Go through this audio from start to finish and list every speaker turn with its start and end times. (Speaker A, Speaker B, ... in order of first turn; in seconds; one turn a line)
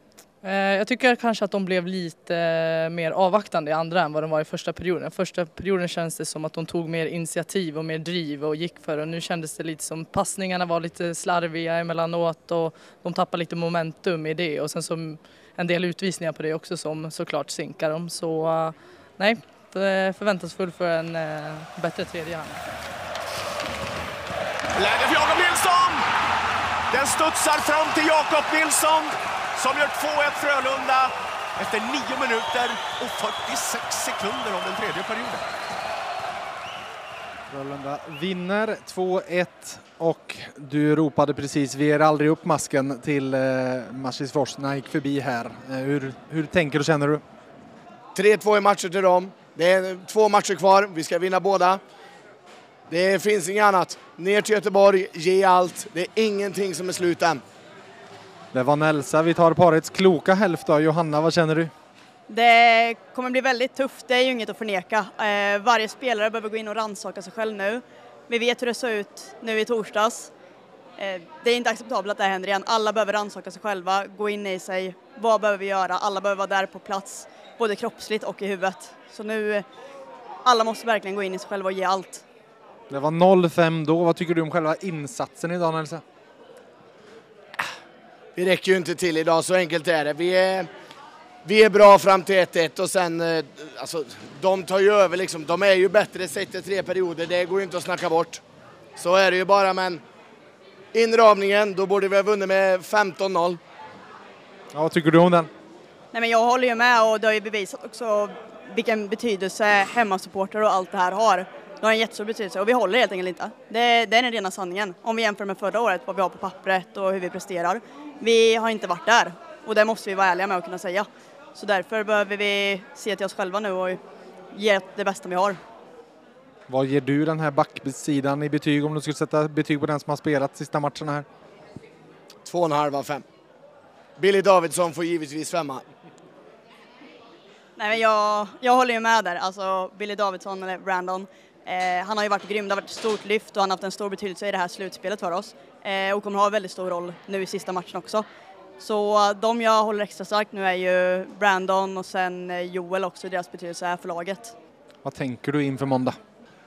Speaker A: 0.4-22.6
Speaker B: 24.8-26.1
Speaker B: 26.9-35.5
Speaker C: 37.5-47.2
Speaker D: 48.1-51.8
Speaker D: 52.9-57.4
Speaker C: 58.5-61.7
Speaker E: 62.3-67.8
Speaker E: 68.3-70.3
Speaker E: 71.0-79.6
Speaker E: 80.5-82.2
Speaker C: 82.9-86.0
Speaker D: 88.3-90.7
Speaker D: 91.4-98.4
Speaker D: 99.0-100.0
Speaker D: 100.9-103.6
Speaker C: 104.7-105.5
Speaker E: 106.1-121.0
Speaker E: 121.5-124.0
Speaker E: 124.5-125.5
Speaker C: 126.7-131.2
Speaker D: 132.4-133.2
Speaker D: 134.2-135.8
Speaker E: 137.8-148.2
Speaker E: 148.8-154.5
Speaker C: 155.0-156.2